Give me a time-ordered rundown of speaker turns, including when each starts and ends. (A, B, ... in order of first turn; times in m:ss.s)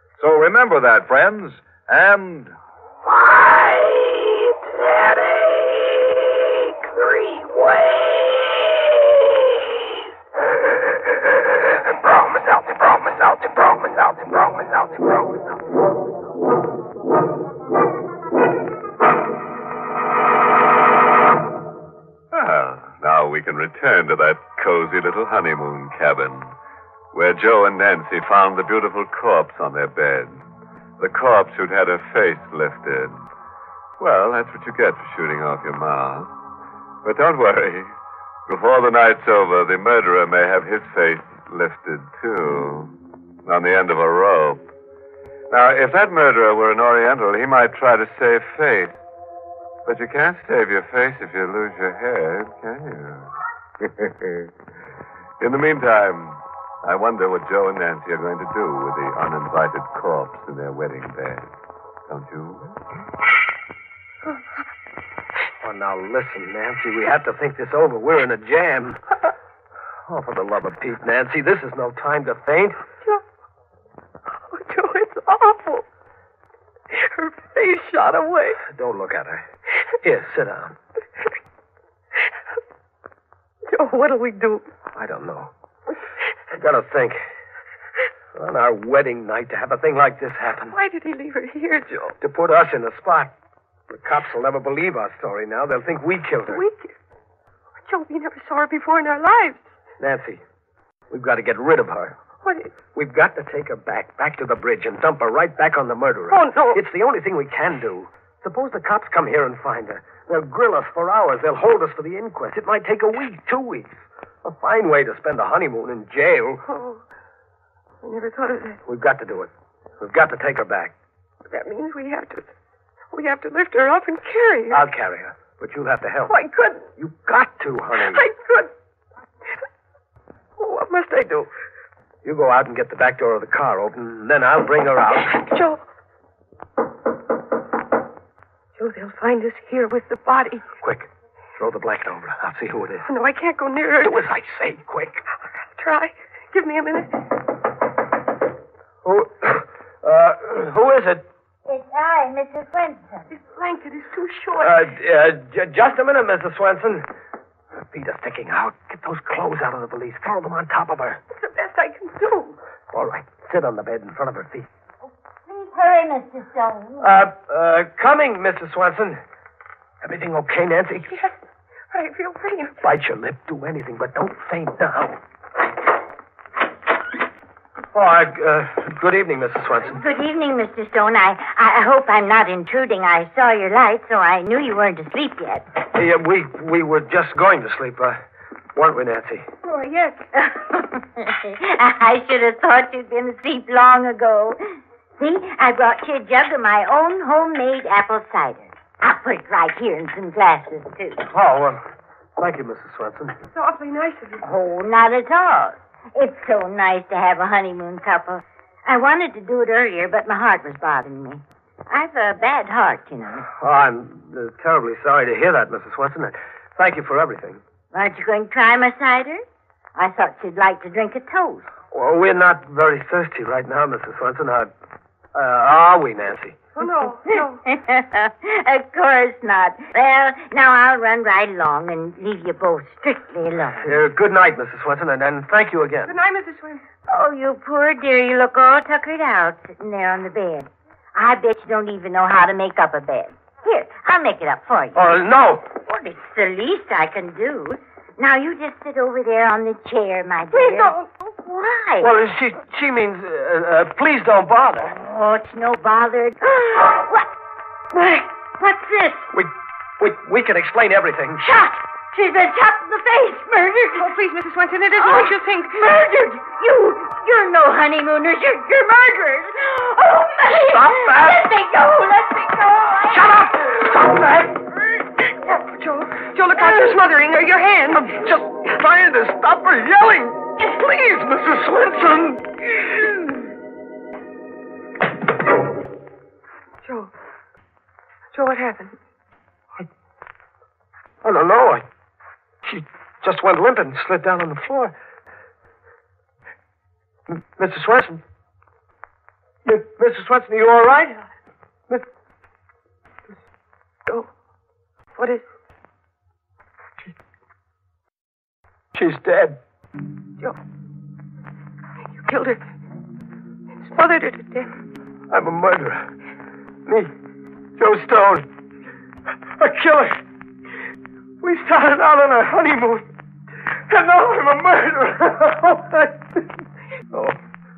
0:00.2-0:02.5 A
0:22.3-0:26.5 B
0:27.1-0:30.4 B
0:31.0-0:33.2 B
0:34.0-0:36.3 B
0:37.0-0:37.9 B
0:38.5-0:42.9 B
0:43.4-0:44.7 B
0:45.5-0:49.0 B
0:49.9-0:54.5 B
0:55.4-1:01.5 B
1:02.1-1:02.8 B
1:05.6-1:09.0 C
1:10.1-1:12.8 C
1:14.4-1:15.9 D
1:16.9-1:18.6 D
1:18.6-1:19.5 C
1:20.0-1:20.8 C
1:23.7-1:24.7 D
1:25.0-1:25.5 C
1:26.5-1:27.2 C
1:28.3-1:30.8 C
1:30.7-1:32.2 D
1:32.2-1:33.3 C
1:33.9-1:36.6 C
1:36.5-1:36.9 D
1:37.8-1:39.7 D
1:40.0-1:40.4 C
1:41.1-1:42.2 C
1:42.4-1:42.7 D
1:42.9-1:56.6 C
1:46.3-1:46.8 D
1:56.7-1:57.0 D
1:58.0-1:58.8 D
1:58.8-2:00.9 C
2:01.5-2:02.5 D
2:03.1-2:04.8 D
2:04.7-2:06.4 C
2:06.3-2:06.9 D
2:07.0-2:08.3 C
2:08.0-2:08.7 D
2:10.6-2:11.5 D
2:12.2-2:15.4 C
2:15.3-2:15.8 D
2:18.8-2:20.7 D
2:20.8-2:23.1 C
2:23.1-2:24.2 D
2:24.0-2:25.2 C
2:25.6-2:27.1 D
2:29.0-2:31.2 C
2:31.7-2:33.2 E
2:33.3-2:34.9 D
2:34.6-2:37.1 C
2:37.8-2:41.2 C
2:41.3-2:42.6 D
2:42.9-2:44.7 C
2:45.5-2:47.1 E
2:47.0-2:49.2 C
2:50.0-2:51.1 C
2:51.1-2:51.4 D
2:51.9-2:52.8 D
2:52.8-2:55.2 C
2:57.9-3:00.0 C
2:59.9-3:05.7 E
3:05.9-3:08.2 C
3:08.8-3:09.5 C
3:09.8-3:10.1 D
3:10.3-3:14.6 E
3:15.2-3:21.2 E
3:21.2-3:21.8 C
3:22.4-3:23.4 C
3:23.5-3:24.4 D
3:24.4-3:33.5 E
3:33.5-3:37.6 C
3:37.9-3:39.4 E
3:40.0-3:41.7 E
3:41.9-3:44.7 C
3:45.3-3:46.6 C
3:46.8-3:47.6 D
3:47.7-3:53.9 E
3:53.8-3:56.2 C
3:56.1-3:56.8 D
3:57.1-4:05.1 E
4:05.0-4:05.7 C
4:05.8-4:12.1 E
4:10.5-4:11.2 D
4:12.0-4:14.9 C
4:14.9-4:17.3 E
4:17.9-4:19.3 E
4:19.3-4:21.4 C
4:21.4-4:24.1 E
4:24.0-4:25.8 D
4:25.0-4:33.3 E
4:30.5-4:31.5 C
4:33.1-4:34.7 C
4:35.5-4:38.2 D
4:37.9-4:43.4 C
4:46.8-4:47.1 D
4:48.3-4:49.0 D
4:51.2-4:51.8 C
4:52.6-4:54.9 C
4:57.3-4:58.2 C
4:59.6-5:01.2 C
5:05.2-5:05.5 D
5:08.9-5:09.6 C
5:12.2-5:12.6 D
5:13.8-5:14.7 D
5:15.3-5:16.1 C
5:16.9-5:17.1 C
5:17.8-5:18.5 C
5:19.6-5:20.2 C
5:21.4-5:23.1 C
5:23.9-5:26.5 C
5:27.1-5:27.4 C